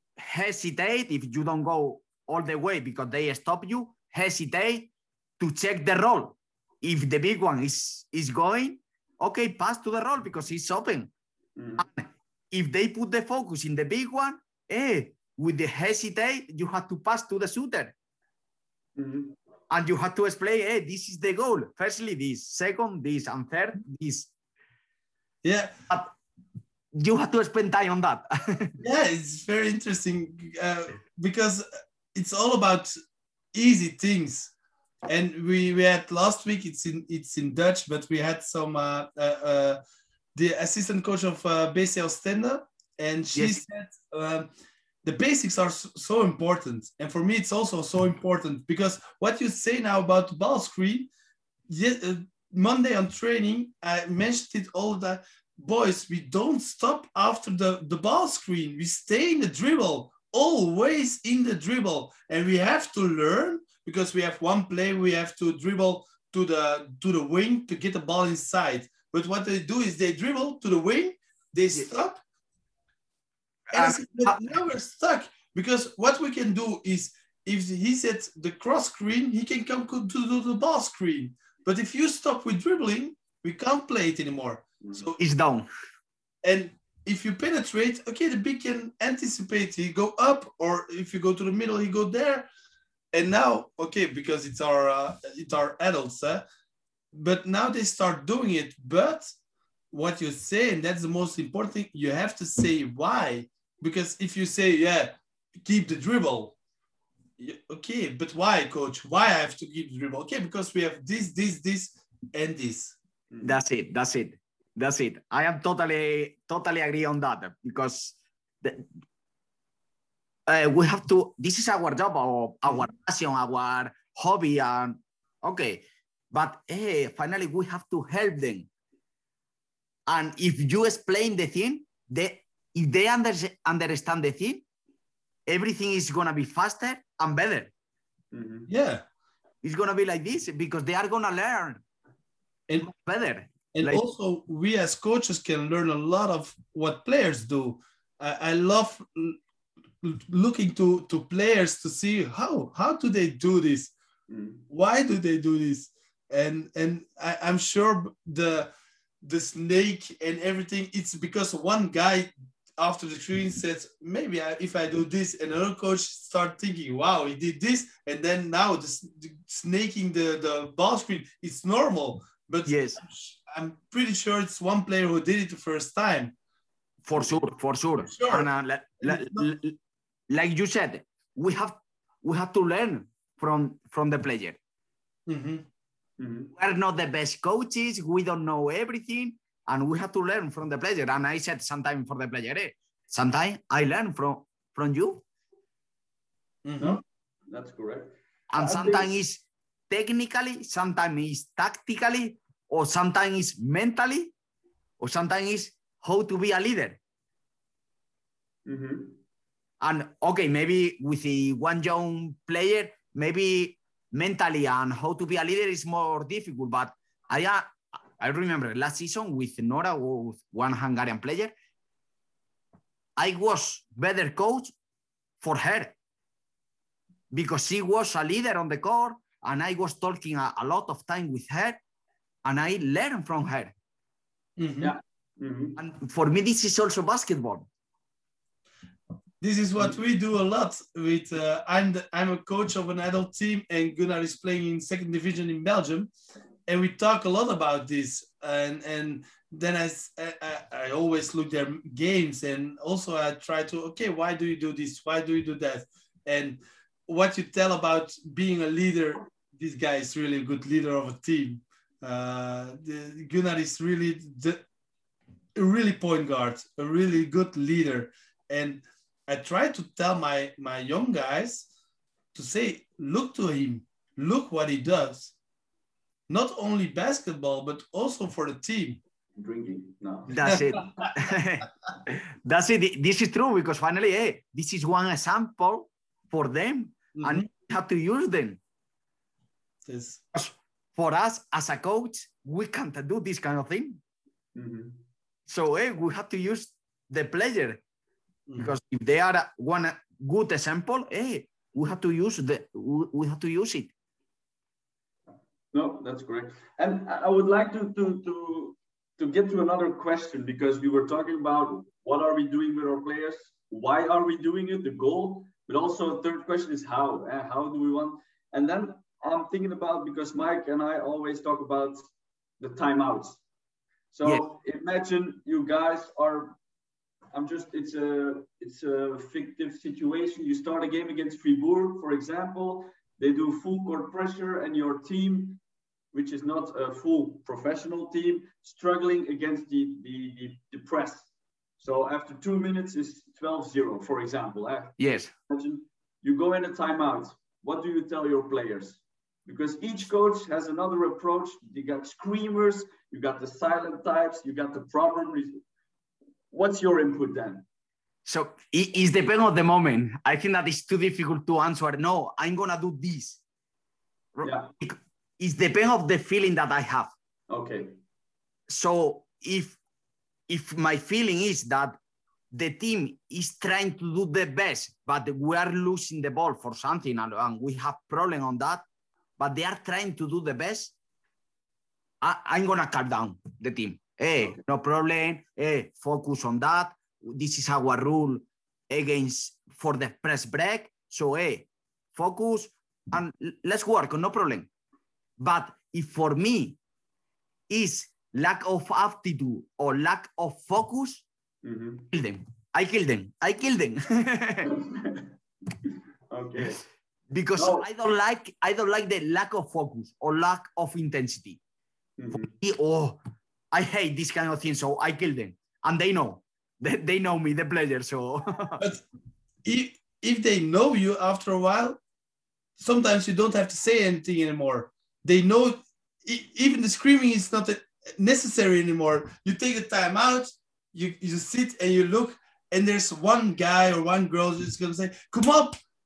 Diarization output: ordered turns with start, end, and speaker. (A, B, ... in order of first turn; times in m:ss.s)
0:00.2-0:11.1 A
0:11.6-0:11.8 B
0:11.8-0:17.9 A
0:19.0-0:19.4 B
0:19.7-0:24.3 A
0:25.4-0:25.7 C
0:26.9-0:28.7 A
0:28.8-0:32.9 C
0:33.5-0:34.5 C
0:35.0-0:39.8 C
0:40.3-0:44.5 C
0:43.3-0:43.6 A
0:45.0-0:51.1 C
0:51.7-1:12.2 C
1:13.7-1:14.6 A
1:13.7-1:25.2 C
1:25.2-1:25.7 A
1:26.4-1:32.5 C
1:33.1-1:36.4 C
1:37.1-1:39.3 C
1:39.9-1:46.6 C
1:47.4-1:53.0 C
1:53.3-1:53.6 B
1:53.4-1:58.9 A
2:00.5-2:08.7 A
2:10.1-2:14.6 A
2:15.5-2:17.7 A
2:18.3-2:18.7 B
2:18.7-2:19.0 C
2:19.6-2:21.8 A
2:22.8-2:24.0 A
2:23.7-2:29.4 C
2:30.0-2:33.9 C
2:34.3-2:34.6 B
2:34.7-2:38.7 C
2:39.2-2:56.3 C
2:52.7-2:53.0 A
2:57.0-2:59.8 A
2:58.0-2:58.5 C
2:59.0-2:59.5 C
3:00.3-3:04.6 A
3:05.3-3:05.6 C
3:06.2-3:06.5 B
3:06.6-3:15.2 A
3:16.6-3:17.0 C
3:16.8-3:19.1 B
3:18.5-3:24.3 A
3:25.0-3:27.0 A
3:28.6-3:29.2 B
3:29.8-3:41.5 A
3:43.2-3:44.7 A
3:45.4-3:45.9 A
3:47.3-3:51.8 A
3:52.4-3:53.7 A
3:54.6-3:54.9 C
3:54.8-3:55.8 B
3:55.8-3:57.7 A
3:59.4-4:06.1 C
4:06.7-4:24.6 C
4:25.6-4:31.7 C
4:32.3-4:35.3 C
4:36.3-4:39.0 C
4:39.4-4:41.1 B
4:40.3-4:48.6 A
4:40.4-4:40.8 C
4:47.1-4:47.5 C
4:49.8-4:50.2 C
4:50.3-4:54.0 A
4:54.5-4:55.0 B
4:55.5-4:57.8 A
4:58.5-4:58.8 C
4:58.6-5:03.9 A
5:05.7-5:22.1 B
5:22.6-5:23.4 B
5:24.1-5:26.6 B
5:27.3-5:35.6 B
5:36.1-5:41.3 B
5:41.8-5:55.6 B
5:45.0-5:45.3 A
5:56.5-5:57.6 B
5:58.2-6:03.4 A
6:04.3-6:07.1 A
6:04.4-6:04.7 B
6:07.5-6:08.0 B
6:08.7-6:09.8 A
6:10.5-6:12.0 A
6:12.5-6:18.8 A
6:19.4-6:20.9 A
6:22.2-6:34.7 A
6:35.4-6:36.8 A
6:37.7-6:41.2 A
6:41.6-6:42.1 B
6:42.1-6:44.7 A
6:44.6-6:45.2 B
6:45.8-6:46.8 B
6:47.3-6:51.6 A
6:47.6-6:47.9 B
6:52.2-6:52.5 B
6:52.3-6:53.2 A
6:53.7-6:58.8 A
6:59.6-7:02.0 C
7:02.8-7:15.8 C